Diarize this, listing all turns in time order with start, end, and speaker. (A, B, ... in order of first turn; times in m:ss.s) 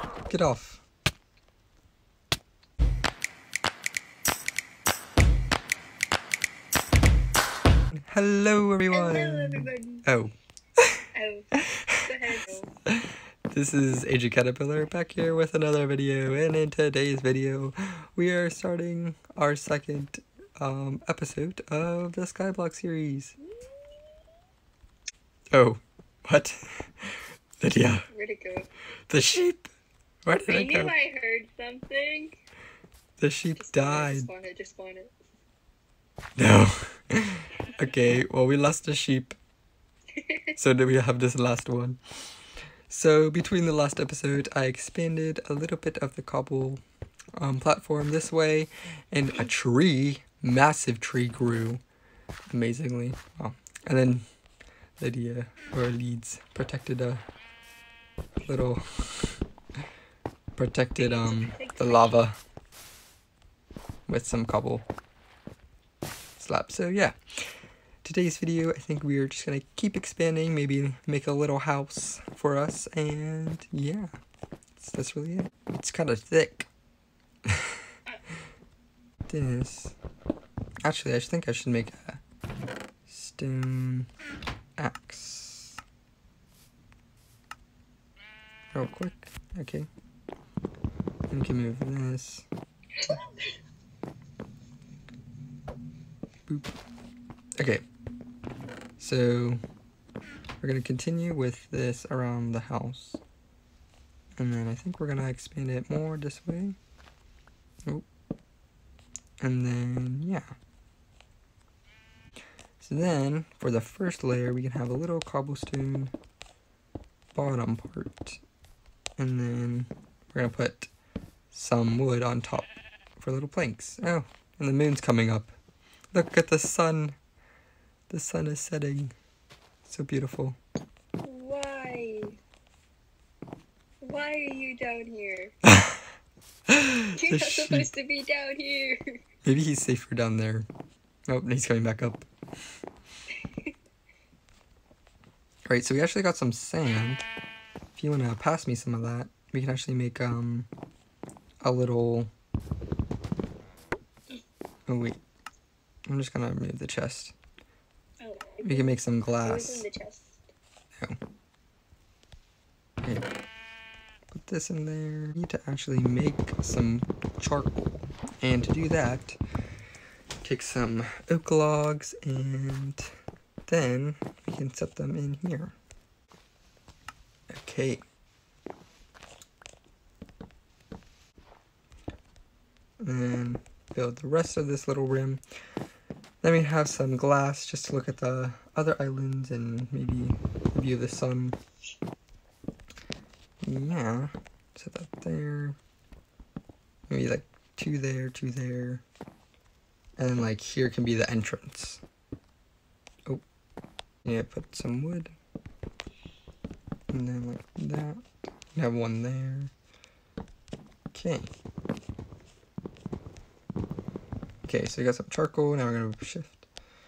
0:00.3-0:00.8 A
0:08.1-0:10.9 A
0:08.9-0:10.1 B
0:11.1-0:12.7 B
0:11.6-0:12.1 A
0:12.9-0:23.4 A
0:23.4-0:24.2 B
0:25.5-0:28.1 A
0:28.1-0:28.7 B
0:29.1-0:29.7 A
0:30.2-0:30.9 A
0:30.4-0:32.4 B
0:33.2-0:34.3 A
0:33.6-0:35.2 B
0:36.4-0:39.4 A
0:40.2-0:40.6 B
0:40.6-0:42.0 A
0:42.9-0:46.8 A
0:47.4-0:51.8 A
0:52.5-0:54.2 A
0:55.0-0:57.2 A
0:58.4-0:59.4 A
1:00.6-1:02.4 A
1:01.0-1:02.2 B
1:04.1-1:04.9 A
1:06.4-1:07.2 A
1:08.0-1:14.2 A
1:14.8-1:16.7 A
1:17.5-1:17.8 A
1:19.3-1:20.0 A
1:20.8-1:22.2 A
1:23.1-1:24.1 A
1:24.8-1:25.8 A
1:28.7-1:29.9 A
1:31.3-1:32.5 A
1:33.0-1:33.6 B
1:36.5-1:36.8 A
1:37.6-1:37.8 A
1:39.0-1:39.6 A
1:40.6-1:43.2 A
1:44.4-1:46.8 A
1:49.4-1:50.6 A
1:52.8-1:56.1 A
1:57.3-1:58.4 A
1:59.2-2:00.9 A
2:01.5-2:02.7 A
2:03.2-2:05.6 A
2:06.1-2:07.2 A
2:08.1-2:09.1 A
2:09.8-2:10.6 A
2:11.2-2:12.4 B
2:14.0-2:15.6 B
2:15.7-2:16.0 A
2:16.7-2:17.9 A
2:17.1-2:19.2 B
2:19.4-2:20.7 A
2:21.3-2:22.3 A
2:23.4-2:23.7 B
2:25.7-2:27.3 A
2:28.0-2:30.7 A
2:31.6-2:32.3 A
2:34.9-2:35.2 A
2:36.1-2:37.4 A
2:38.2-2:40.4 B
2:38.6-2:39.9 A
2:44.3-2:49.4 A
2:50.4-2:53.1 A
2:53.7-2:55.8 A
2:57.5-2:58.0 A
3:03.0-3:05.4 A
3:06.4-3:11.6 A
3:13.6-3:15.8 A
3:17.1-3:19.0 A
3:20.2-3:22.0 A
3:24.2-3:25.4 A
3:27.1-3:28.2 A
3:28.8-3:29.7 A
3:31.1-3:31.5 A
3:34.6-3:36.6 A